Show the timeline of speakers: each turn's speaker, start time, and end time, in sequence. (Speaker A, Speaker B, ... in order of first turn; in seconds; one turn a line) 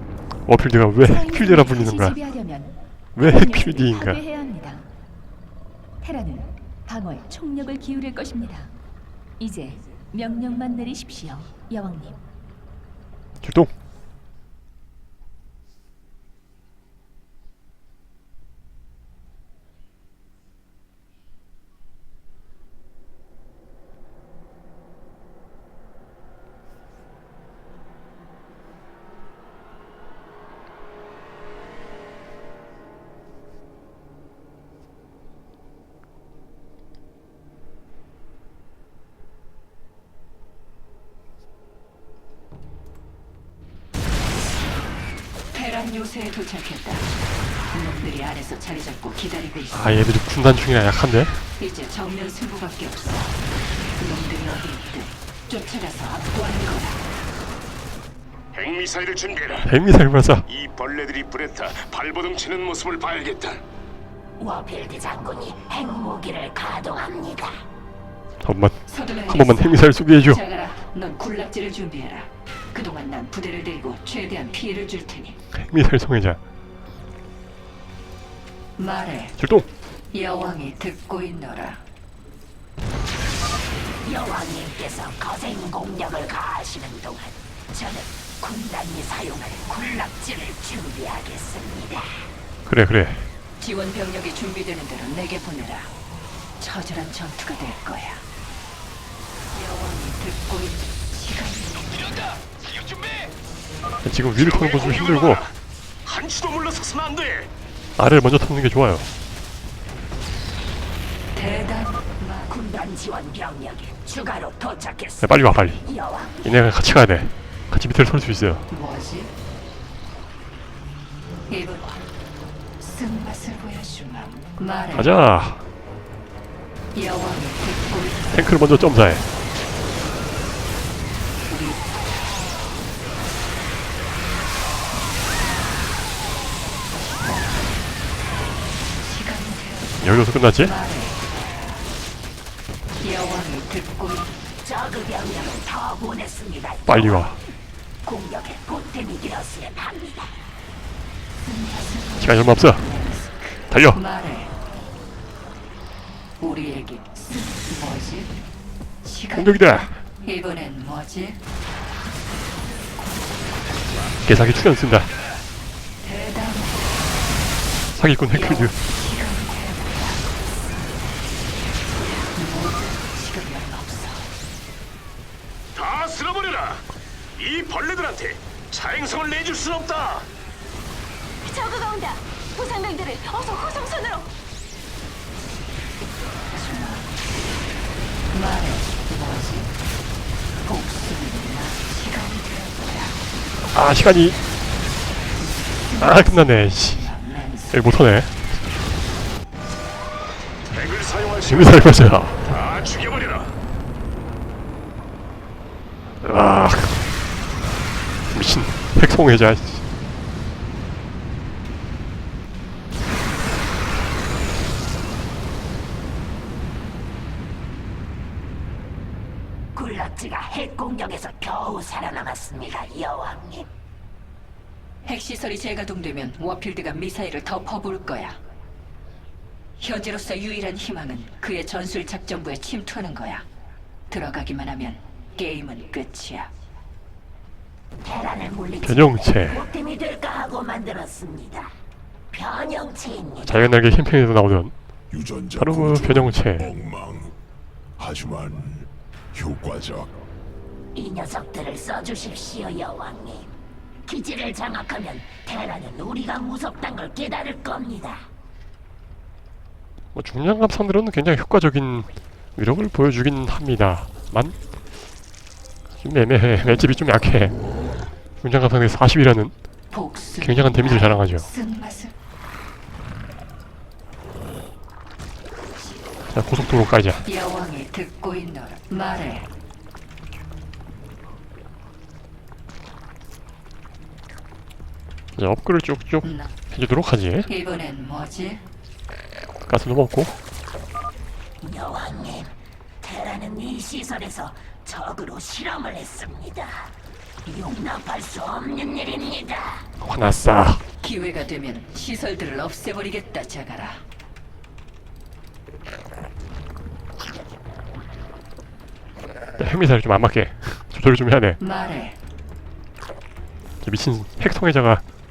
Speaker A: 0.5-2.2
Speaker B: 1.0-4.9
Speaker A: 3.1-4.2
Speaker B: 6.0-8.7
Speaker B: 9.4-12.2
Speaker A: 13.4-13.7
Speaker C: 45.5-47.1
Speaker C: 47.7-50.0
Speaker A: 49.7-51.4
Speaker C: 51.6-53.4
Speaker C: 54.0-57.0
Speaker D: 58.5-59.7
Speaker A: 59.6-60.5
Speaker D: 60.5-63.6
Speaker E: 64.4-67.7
Speaker A: 68.4-70.4
Speaker C: 68.9-75.4
Speaker A: 75.5-76.4
Speaker C: 78.8-79.4
Speaker A: 79.4-79.7
Speaker C: 80.1-81.8
Speaker E: 84.0-92.3
Speaker A: 92.7-93.3
Speaker C: 93.6-95.9
Speaker C: 96.6-98.2
Speaker C: 99.5-102.0
Speaker D: 102.8-103.1
Speaker A: 104.0-105.5
Speaker D: 104.4-105.5
Speaker D: 106.0-107.5
Speaker A: 108.0-109.1
Speaker C: 111.3-112.5
Speaker E: 112.5-116.5
Speaker A: 115.2-115.8
Speaker A: 116.4-118.7
Speaker C: 118.7-119.3
Speaker C: 121.5-121.8
Speaker C: 122.8-125.0
Speaker A: 124.9-125.7
Speaker C: 127.0-128.5
Speaker A: 128.3-129.3
Speaker C: 131.5-131.8
Speaker C: 139.0-140.0
Speaker A: 140.0-140.8
Speaker C: 140.6-141.2
Speaker C: 143.0-144.3
Speaker E: 144.6-147.3
Speaker A: 146.9-147.4
Speaker E: 148.1-150.4
Speaker C: 151.4-154.5
Speaker A: 152.2-152.9
Speaker A: 153.7-154.0
Speaker C: 156.4-158.3
Speaker C: 159.0-161.4
Speaker A: 159.3-160.0
Speaker A: 164.2-165.1
Speaker C: 166.0-167.0
Speaker A: 167.9-168.8
Speaker C: 168.3-170.2
Speaker C: 172.3-174.3
Speaker D: 175.8-180.3
Speaker B: 181.4-184.3
Speaker C: 186.5-187.1
Speaker C: 188.3-189.7
Speaker C: 190.6-193.2
Speaker A: 193.7-194.4
Speaker C: 195.4-197.8
Speaker A: 196.0-197.1
Speaker A: 197.7-198.4
Speaker D: 200.7-203.6
Speaker A: 201.5-202.4
Speaker A: 206.2-207.1
Speaker A: 208.3-209.8
Speaker E: 219.8-223.7
Speaker C: 225.1-228.4
Speaker C: 229.8-233.5
Speaker C: 234.1-236.5
Speaker E: 238.0-241.7
Speaker A: 238.8-239.7
Speaker E: 242.3-243.7
Speaker A: 243.5-244.7
Speaker F: 245.1-247.3
Speaker A: 245.6-246.7
Speaker F: 248.0-250.2
Speaker E: 250.9-253.5
Speaker E: 254.1-258.3
Speaker A: 260.1-264.6
Speaker A: 266.0-267.6
Speaker A: 268.4-269.5
Speaker C: 269.9-272.1
Speaker A: 270.4-271.5
Speaker A: 276.3-277.3
Speaker C: 277.3-279.5
Speaker A: 285.4-287.5
Speaker C: 287.5-288.6
Speaker A: 289.7-290.4
Speaker E: 291.6-296.9
Speaker E: 297.5-299.9
Speaker A: 300.0-300.8
Speaker C: 301.0-304.1
Speaker A: 309.6-311.6
Speaker C: 311.6-312.2
Speaker A: 313.8-315.0